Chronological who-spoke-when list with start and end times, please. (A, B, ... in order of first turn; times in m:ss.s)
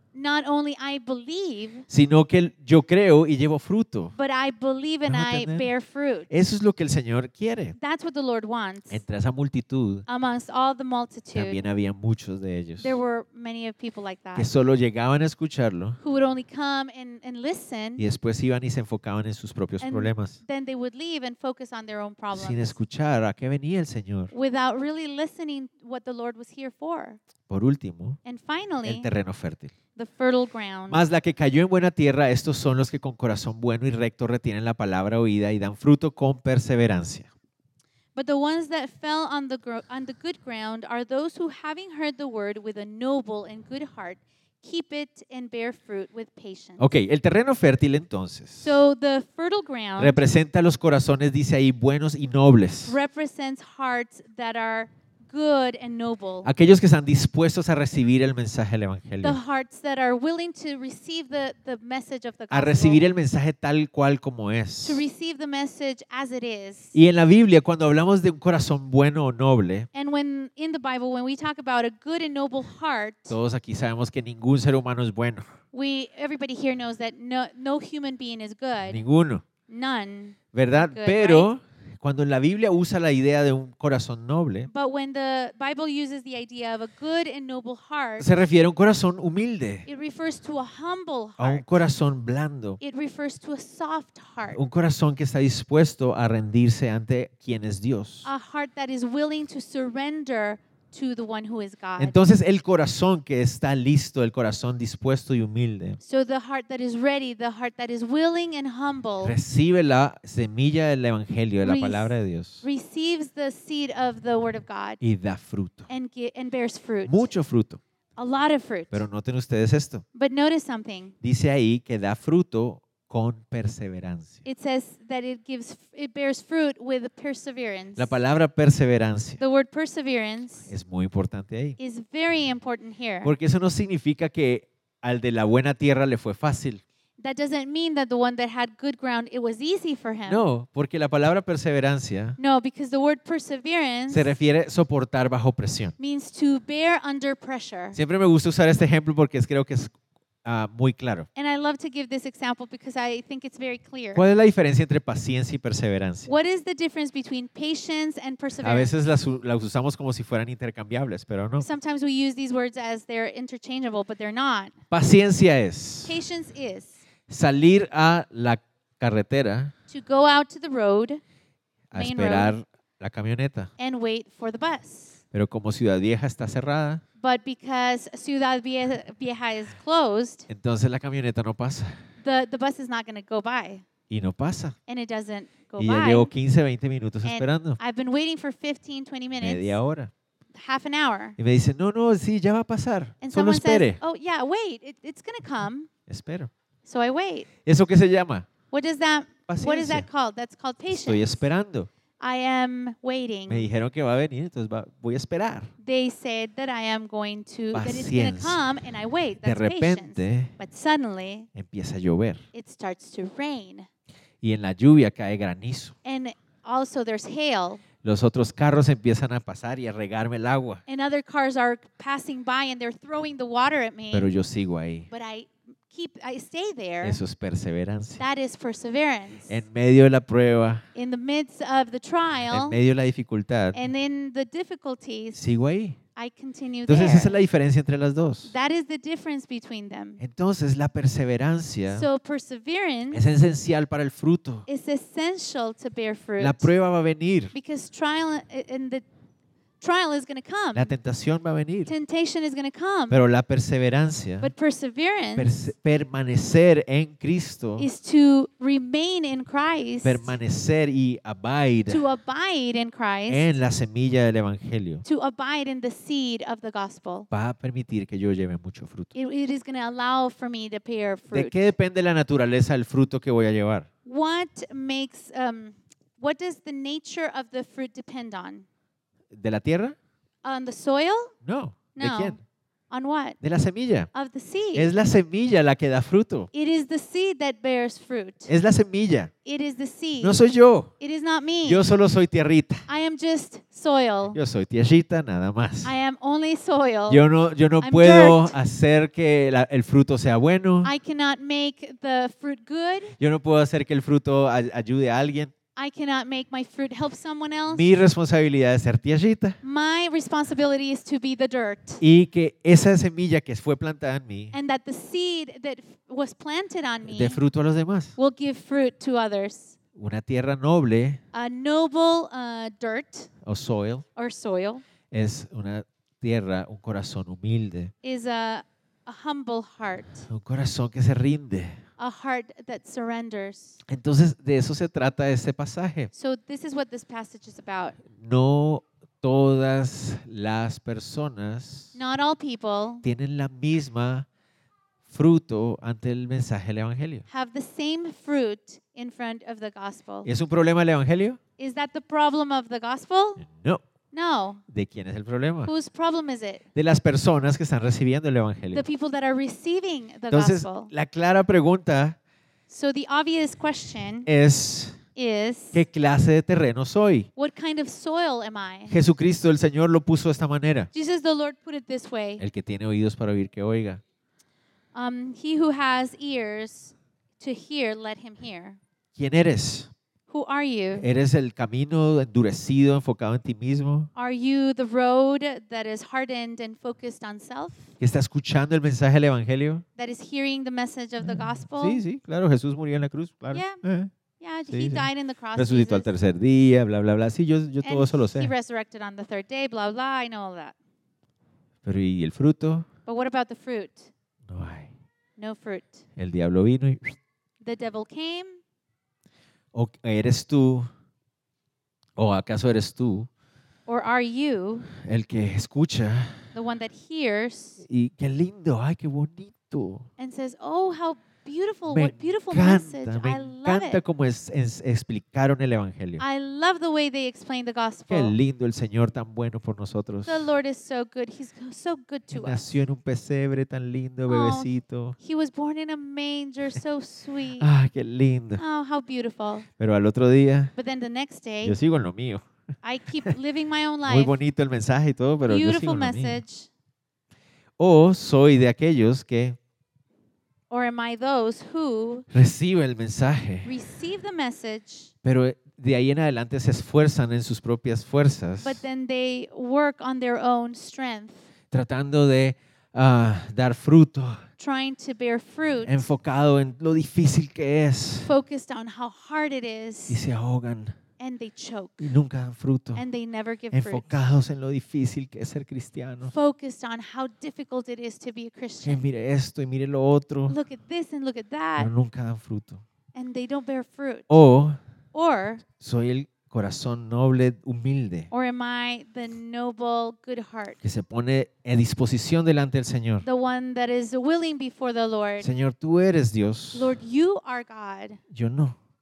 0:00.1-0:01.8 A
0:01.9-0:04.1 B
0:04.1-0:06.3 A
0:05.1-0:05.7 B
0:06.3-0:07.7 B
0:07.8-0:09.0 A
0:08.9-0:10.0 B
0:10.1-0:11.6 A
0:11.3-0:13.0 B
0:12.8-0:14.5 A
0:14.4-0:16.0 B
0:16.0-0:18.0 A
0:18.0-0:20.4 B
0:19.8-0:22.8 A
0:22.3-0:24.3 B
0:24.3-0:27.2 A
0:27.5-0:28.2 B
0:28.2-0:29.1 A
0:28.8-0:29.7 B
0:30.0-0:31.0 A
0:30.9-0:37.3 B
0:38.1-0:46.8 A
0:46.8-0:48.8 B
0:48.6-0:50.2 A
0:50.0-0:53.0 B
0:52.8-0:56.5 A
0:56.4-0:59.4 B
0:59.2-1:03.0 A
1:02.5-1:05.0 B
1:04.8-1:06.9 A
1:06.9-1:09.9 B
1:09.9-1:13.4 A
1:13.3-1:15.4 B
1:15.7-1:19.0 A
1:18.9-1:19.4 B
1:19.7-1:21.5 A
1:20.5-1:24.7 B
1:24.7-1:28.3 A
1:28.2-1:29.8 B
1:29.9-1:31.8 A
1:31.4-1:32.8 B
1:32.8-1:34.6 A
1:34.5-1:38.3 B
1:38.2-1:42.2 A
1:42.0-1:46.0 B
1:46.0-1:49.4 A
1:49.2-1:52.6 B
1:51.6-1:55.0 A
1:55.0-1:55.9 B
1:55.9-1:57.3 A
1:57.0-1:57.8 B
1:58.2-1:59.0 A
1:58.9-2:00.0 B
2:00.1-2:01.1 A
2:01.2-2:04.4 B
2:04.4-2:08.2 A
2:08.0-2:09.4 B
2:09.4-2:10.7 A
2:10.7-2:11.8 B
2:11.8-2:13.3 A
2:13.2-2:16.8 B
2:17.2-2:20.4 A
2:20.3-2:22.4 B
2:22.4-2:24.4 A
2:24.1-2:25.9 B
2:26.0-2:28.0 A
2:27.9-2:31.3 B
2:31.4-2:34.2 A
2:34.1-2:36.3 B
2:36.2-2:38.9 A
2:38.6-2:41.7 B
2:41.6-2:44.7 A
2:44.9-2:46.2 B
2:46.0-2:47.0 A
2:47.3-2:49.7 B
2:49.9-2:51.2 A
2:51.9-2:53.7 B
2:51.9-2:52.5 A
2:53.8-2:55.2 A
2:55.3-2:57.0 B
2:57.2-3:00.5 A
3:00.5-3:01.9 B
3:02.2-3:03.8 A
3:04.1-3:04.8 B
3:04.9-3:06.3 A
3:05.8-3:07.8 B
3:07.2-3:09.8 A
3:09.3-3:10.1 B
3:10.5-3:11.4 A
3:11.4-3:14.0 B
3:13.2-3:15.9 A
3:16.1-3:16.5 B
3:16.8-3:17.5 A
3:17.6-3:18.5 B
3:18.7-3:21.4 A
3:19.5-3:20.1 B
3:20.9-3:21.9 B
3:22.2-3:23.7 A
3:23.5-3:25.7 B
3:25.8-3:31.5 A
3:27.7-3:28.6 B
3:29.4-3:30.5 B
3:31.5-3:32.4 B
3:32.5-3:33.9 A
3:34.4-3:36.0 B
3:36.0-3:37.8 A
3:38.0-3:40.8 B
3:40.9-3:44.3 A
3:44.1-3:45.1 B
3:45.1-3:47.2 A
3:47.0-3:48.2 B
3:48.2-3:49.6 A
3:49.5-3:50.8 B
3:50.9-3:52.8 A
3:52.5-3:53.8 B
3:53.7-3:55.4 A
3:55.3-3:56.0 B
3:56.2-3:57.4 A
3:56.9-3:58.5 B
3:58.4-4:00.2 A
4:00.2-4:02.1 B
4:01.9-4:03.2 A
4:03.1-4:04.6 B
4:04.7-4:06.7 A
4:06.4-4:07.5 B
4:07.5-4:09.0 A
4:09.8-4:10.9 A
4:10.7-4:11.9 B
4:11.8-4:13.2 A
4:13.1-4:14.5 B
4:14.4-4:15.6 A
4:15.4-4:17.9 B
4:17.8-4:20.3 A
4:20.0-4:22.0 B
4:21.9-4:23.6 A
4:23.3-4:25.0 B
4:25.0-4:27.3 A
4:27.3-4:29.1 B
4:29.1-4:31.7 A
4:31.3-4:33.9 B
4:34.0-4:38.6 A
4:39.3-4:40.0 B
4:40.4-4:41.3 A
4:41.4-4:42.4 B
4:41.9-4:42.4 A
4:42.9-4:43.4 A
4:43.4-4:44.1 B
4:44.1-4:44.9 A
4:44.7-4:46.5 B
4:46.5-4:48.5 A
4:48.5-4:49.3 B
4:49.4-4:50.4 A
4:50.2-4:50.9 B
4:51.0-4:51.8 A
4:51.6-4:52.8 B
4:52.9-4:54.4 A
4:54.3-4:55.9 B
4:55.8-4:57.2 A
4:57.1-5:00.9 B
4:57.8-4:58.6 A
5:00.8-5:03.1 A
5:03.2-5:05.5 B
5:05.7-5:07.9 A
5:07.7-5:09.6 B
5:09.6-5:12.0 A
5:12.0-5:14.5 B
5:14.5-5:17.4 A
5:17.0-5:18.1 B
5:18.2-5:19.8 A
5:20.0-5:21.2 B
5:21.3-5:23.3 A
5:23.4-5:24.0 B
5:24.2-5:24.8 A
5:25.1-5:27.9 B
5:28.0-5:30.3 A
5:30.3-5:31.8 B
5:32.0-5:33.8 A
5:33.9-5:36.1 B
5:36.1-5:38.0 A
5:38.1-5:42.0 B
5:41.9-5:43.0 A
5:43.0-5:44.2 B
5:45.1-5:47.2 B
5:47.3-5:50.3 A
5:50.2-5:51.4 B
5:51.6-5:53.4 A
5:53.4-5:53.8 B
5:54.1-5:54.6 A
5:54.7-5:55.7 B
5:55.6-5:56.6 A
5:56.7-5:58.8 B
5:58.7-6:00.9 A
6:00.3-6:02.2 B
6:02.7-6:04.3 A
6:04.2-6:05.0 B
6:05.1-6:05.8 A
6:05.7-6:07.3 B
6:07.4-6:09.0 A
6:08.9-6:10.9 B
6:10.9-6:12.4 A
6:12.4-6:14.0 B
6:14.9-6:18.8 A
6:19.2-6:19.9 B
6:20.3-6:21.0 A
6:20.9-6:24.1 B
6:24.1-6:27.9 A
6:28.0-6:29.8 B
6:30.0-6:32.0 A
6:31.2-6:34.1 B
6:33.5-6:33.8 A
6:34.4-6:36.1 A
6:34.7-6:38.5 B
6:37.8-6:40.7 A
6:41.8-6:42.9 B
6:43.0-6:44.1 A
6:44.5-6:44.9 B
6:45.4-6:46.0 A
6:46.2-6:47.2 B
6:47.6-6:48.6 A
6:49.7-6:50.9 B
6:52.2-6:53.3 B
6:53.9-6:54.9 A
6:54.9-6:56.4 B
6:56.5-6:57.8 A
6:57.8-7:00.0 B
7:00.2-7:04.0 A
7:01.9-7:06.2 B
7:06.2-7:08.4 A
7:08.1-7:10.5 B
7:10.2-7:12.8 A
7:12.3-7:15.2 B
7:14.3-7:17.7 A
7:17.6-7:18.6 B
7:18.6-7:19.7 A
7:19.8-7:20.7 B
7:20.8-7:21.8 A
7:21.6-7:22.4 B
7:22.8-7:24.4 A
7:24.1-7:26.4 B
7:25.5-7:26.7 A
7:27.8-7:29.6 B
7:30.7-7:32.2 A
7:32.3-7:33.7 B
7:33.6-7:35.1 A
7:35.2-7:38.8 B
7:38.6-7:41.5 A
7:41.7-7:44.4 B
7:44.6-7:46.1 A
7:45.8-7:48.3 B
7:48.2-7:50.2 A
7:50.1-7:51.0 B
7:51.2-7:52.1 A
7:52.0-7:53.0 B
7:52.9-7:54.2 A
7:53.7-7:56.3 B
7:56.3-7:59.0 A
7:58.8-8:00.6 B
8:00.5-8:01.9 A
8:01.8-8:02.8 B
8:03.1-8:04.3 A
8:04.3-8:04.8 B
8:05.1-8:05.6 A
8:05.7-8:08.3 B
8:08.3-8:10.8 A
8:10.8-8:13.2 B
8:13.2-8:15.5 A
8:15.4-8:17.0 B
8:16.7-8:18.2 A
8:18.3-8:18.8 B